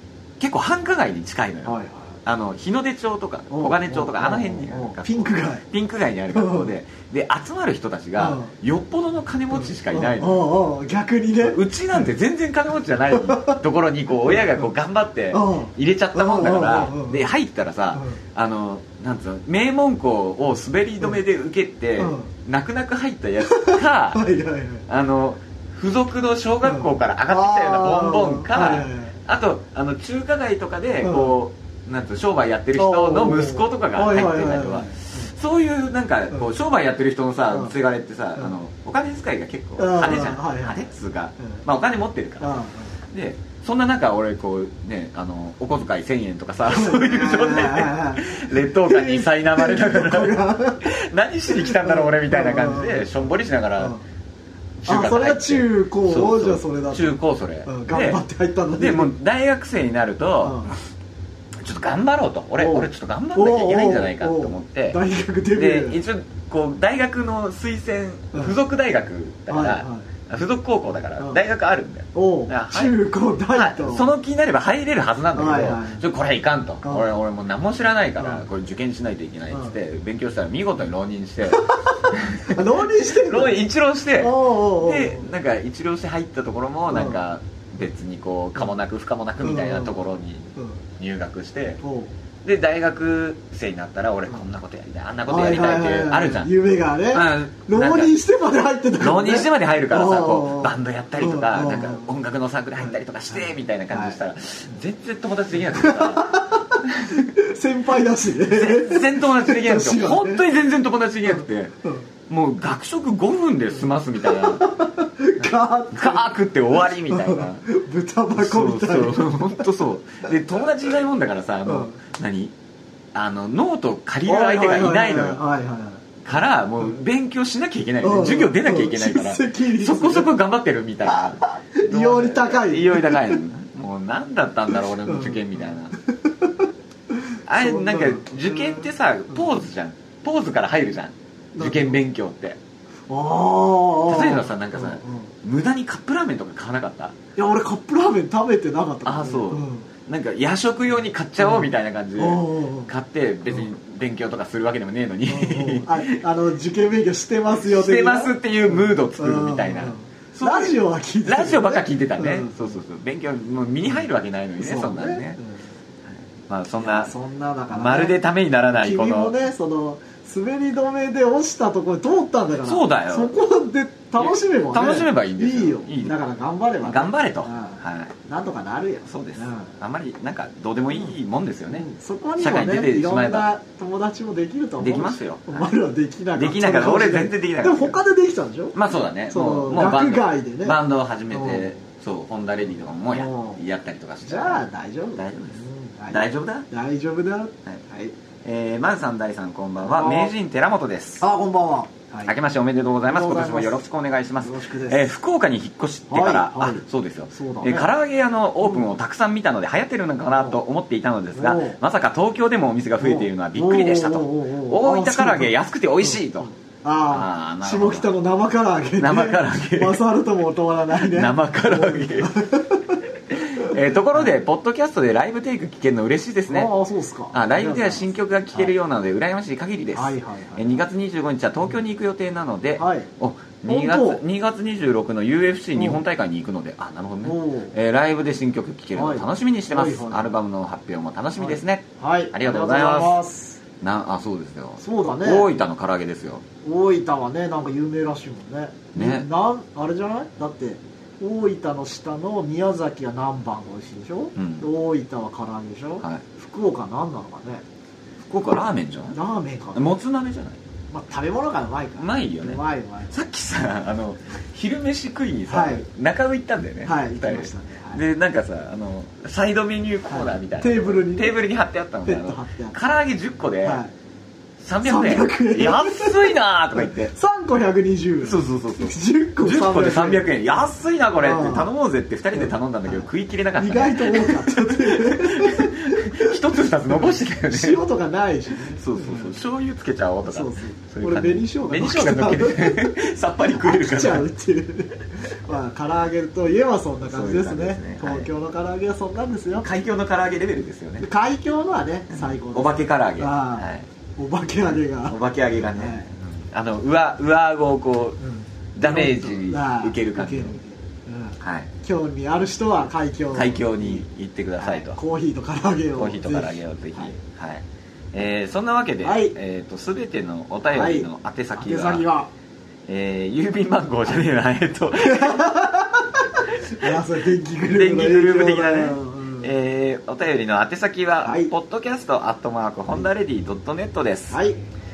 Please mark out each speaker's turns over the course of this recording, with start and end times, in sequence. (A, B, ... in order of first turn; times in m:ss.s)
0:00.4-0:10.4 A
0:01.6-0:02.2 B
0:03.5-0:05.6 B
0:06.3-0:06.7 B
0:08.2-0:08.5 B
0:09.5-0:12.1 B
0:11.4-0:24.3 A
0:13.1-0:13.6 B
0:14.2-0:14.6 B
0:15.3-0:17.3 B
0:22.0-0:22.3 B
0:23.4-0:24.8 B
0:24.9-0:42.6 A
0:26.6-0:29.2 B
0:31.0-0:31.4 B
0:32.8-0:35.3 B
0:39.8-0:40.8 B
0:42.4-0:42.9 B
0:43.1-0:54.0 A
0:46.6-0:50.9 B
0:51.5-0:53.2 B
0:53.8-0:54.0 B
0:54.8-0:58.2 A
0:54.8-0:59.1 B
0:58.8-1:00.7 A
1:00.4-1:00.7 B
1:01.6-1:05.0 A
1:02.6-1:06.0 B
1:05.5-1:13.0 A
1:09.5-1:10.1 B
1:12.1-1:14.1 B
1:13.5-1:22.6 A
1:15.3-1:16.0 B
1:16.8-1:17.1 B
1:18.2-1:18.4 B
1:21.5-1:23.7 B
1:23.2-1:31.8 A
1:24.2-1:25.3 B
1:26.9-1:27.2 B
1:29.4-1:30.0 B
1:30.6-1:30.8 B
1:31.8-1:32.1 B
1:32.4-1:36.5 A
1:35.3-1:42.1 B
1:37.1-1:38.1 A
1:39.0-1:47.3 A
1:42.8-1:44.2 B
1:45.7-1:46.8 B
1:47.3-1:50.4 B
1:48.4-1:51.7 A
1:51.3-1:52.1 B
1:52.3-1:54.7 A
1:53.7-1:56.3 B
1:55.4-1:57.7 A
1:57.1-1:59.6 B
1:58.3-2:02.5 A
2:01.6-2:01.9 B
2:03.1-2:05.4 A
2:04.2-2:06.0 B
2:06.2-2:15.9 A
2:08.0-2:10.3 B
2:11.0-2:13.4 B
2:14.7-2:19.4 B
2:17.5-2:22.6 A
2:21.6-2:22.0 B
2:23.1-2:25.3 B
2:24.1-2:27.2 A
2:27.4-2:29.9 B
2:29.0-2:36.2 A
2:31.4-2:32.9 B
2:35.3-2:42.7 B
2:37.6-2:45.4 A
2:44.6-2:45.7 B
2:46.5-2:47.1 A
2:46.8-2:48.2 B
2:47.7-2:49.3 A
2:48.7-2:59.7 B
2:52.6-2:53.4 A
2:54.2-2:56.2 A
2:56.8-2:58.1 A
2:59.0-3:03.5 A
3:01.7-3:08.8 B
3:04.8-3:05.7 A
3:06.3-3:08.0 A
3:08.7-3:14.6 A
3:09.3-3:10.8 B
3:11.3-3:11.7 B
3:13.1-3:13.6 B
3:14.2-3:18.1 B
3:15.1-3:16.7 A
3:18.4-3:21.3 A
3:19.8-3:20.3 B
3:21.2-3:22.3 B
3:22.2-3:36.5 A
3:23.0-3:23.8 B
3:24.4-3:25.1 B
3:26.1-3:27.9 B
3:30.3-3:30.6 B
3:31.3-3:31.8 B
3:33.0-3:43.0 B
3:37.1-3:38.1 A
3:39.0-3:40.0 A
3:41.0-3:42.4 A
3:43.3-3:46.7 A
3:43.6-3:44.4 B
3:46.5-3:48.7 B
3:47.3-4:03.2 A
3:49.9-3:50.9 B
3:52.8-3:53.1 B
3:53.6-3:54.2 B
3:55.8-3:56.0 B
3:57.2-3:57.7 B
3:58.9-4:00.3 B
4:01.4-4:03.6 B
4:03.8-4:06.4 A
4:04.8-4:05.5 B
4:06.6-4:17.6 B
4:08.9-4:09.3 A
4:14.4-4:14.7 A
4:18.3-4:19.2 A
4:19.1-4:19.9 B
4:19.7-4:20.6 A
4:20.9-4:23.1 B
4:22.0-4:33.8 A
4:25.5-4:25.8 B
4:26.8-4:28.0 B
4:30.1-4:31.5 B
4:32.0-4:32.7 B
4:33.6-4:33.9 B
4:34.6-4:37.1 A
4:34.8-4:40.3 B
4:38.2-4:47.8 A
4:41.2-4:41.7 B
4:42.3-4:49.3 B
4:48.7-4:54.3 A
4:50.2-4:53.0 B
4:53.5-4:59.7 B
4:57.0-4:58.3 A
4:59.5-5:01.1 A
5:01.0-5:05.2 B
5:02.1-5:03.9 A
5:04.6-5:08.2 A
5:05.7-5:06.1 B
5:08.2-5:14.0 B
5:08.8-5:10.6 A
5:11.4-5:11.7 A
5:13.3-5:15.0 A
5:14.6-5:17.1 B
5:16.0-5:22.1 A
5:19.0-5:19.3 B
5:20.7-5:22.3 B
5:22.9-5:25.7 A
5:25.0-5:29.5 B
5:26.7-5:26.9 A
5:27.7-5:34.4 A
5:31.2-5:31.5 B
5:34.3-5:34.6 B